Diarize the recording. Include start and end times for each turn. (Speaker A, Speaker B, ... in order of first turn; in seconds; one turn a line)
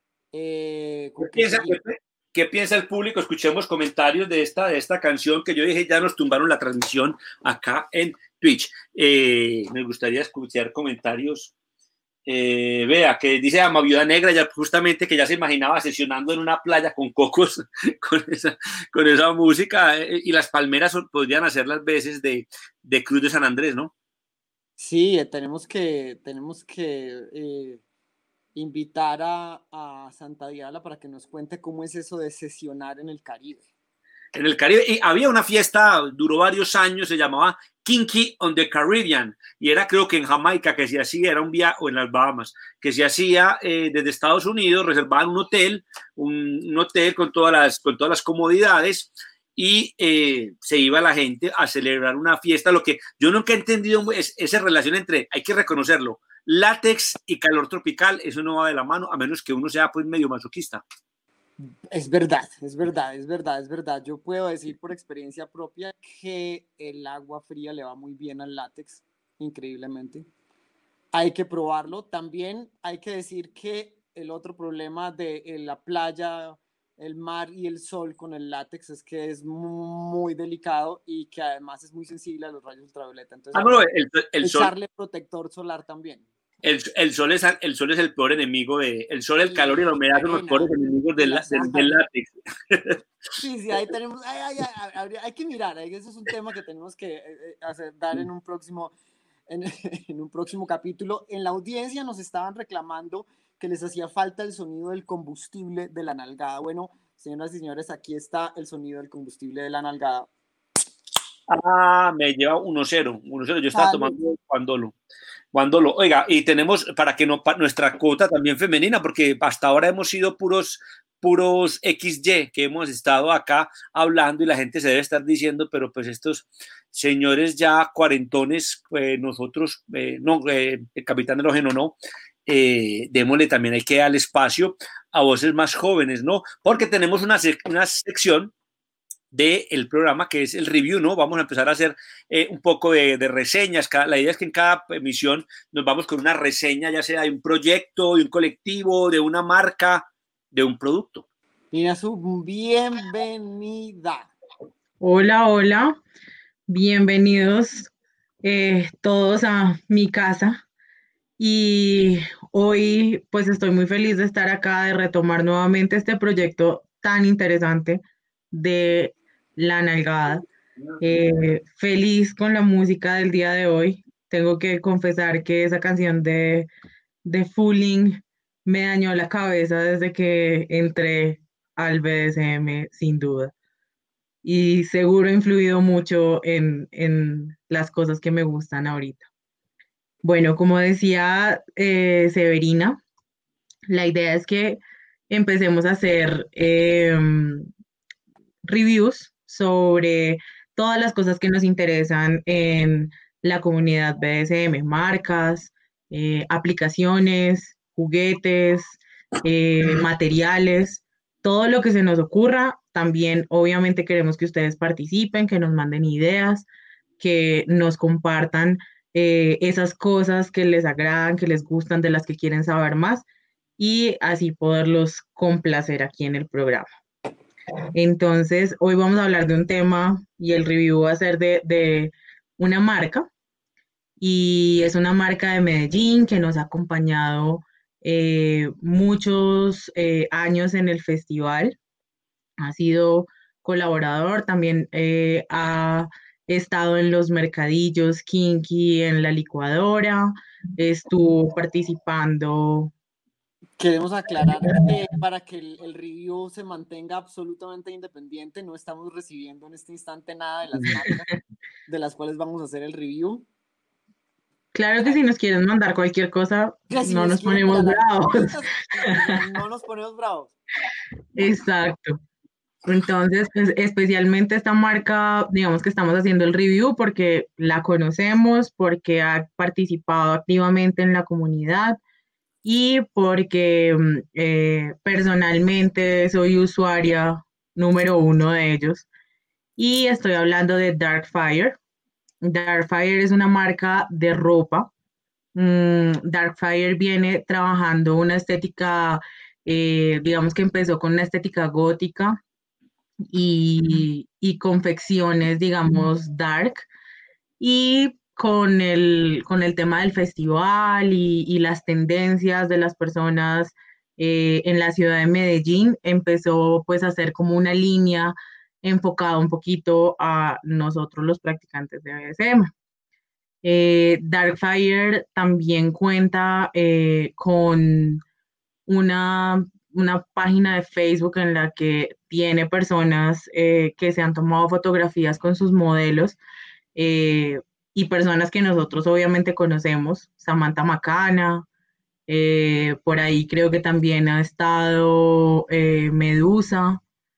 Speaker A: 0.3-1.8
Speaker B: 1.2-11.5
Speaker B: 12.3-23.9
Speaker A: 24.8-27.8
Speaker A: 28.6-33.7
Speaker B: 34.4-60.8
Speaker A: 61.6-70.3
Speaker A: 71.1-83.9
Speaker B: 83.5-84.7
Speaker A: 84.4-86.3
Speaker B: 86.6-93.0
Speaker A: 89.4-92.0
Speaker A: 93.4-98.9
Speaker A: 99.5-110.3
Speaker B: 111.5-115.0
Speaker A: 113.7-114.1
Speaker B: 115.5-138.5
Speaker B: 139.3-151.2
Speaker A: 151.7-154.3
Speaker C: 155.0-156.0
Speaker C: 156.7-157.9
Speaker C: 158.4-160.6
Speaker C: 161.4-170.5
Speaker C: 171.0-176.7
Speaker C: 177.2-183.5
Speaker C: 184.4-189.3
Speaker C: 190.2-193.0
Speaker C: 193.9-197.7
Speaker C: 198.7-216.7
Speaker C: 217.2-223.2
Speaker C: 223.8-226.9
Speaker C: 227.9-233.3
Speaker C: 234.2-241.8
Speaker C: 242.6-252.9
Speaker A: 253.8-261.3
Speaker C: 260.9-261.3
Speaker A: 261.9-263.5
Speaker C: 264.7-268.5
Speaker A: 266.9-270.5
Speaker C: 271.4-272.2
Speaker C: 272.9-282.0
Speaker C: 282.6-289.1
Speaker C: 289.8-291.8
Speaker C: 292.4-294.9
Speaker C: 295.6-302.4
Speaker C: 303.3-306.9
Speaker C: 307.6-322.7
Speaker C: 323.6-328.2
Speaker C: 328.9-336.4
Speaker C: 336.9-341.6
Speaker C: 342.3-347.0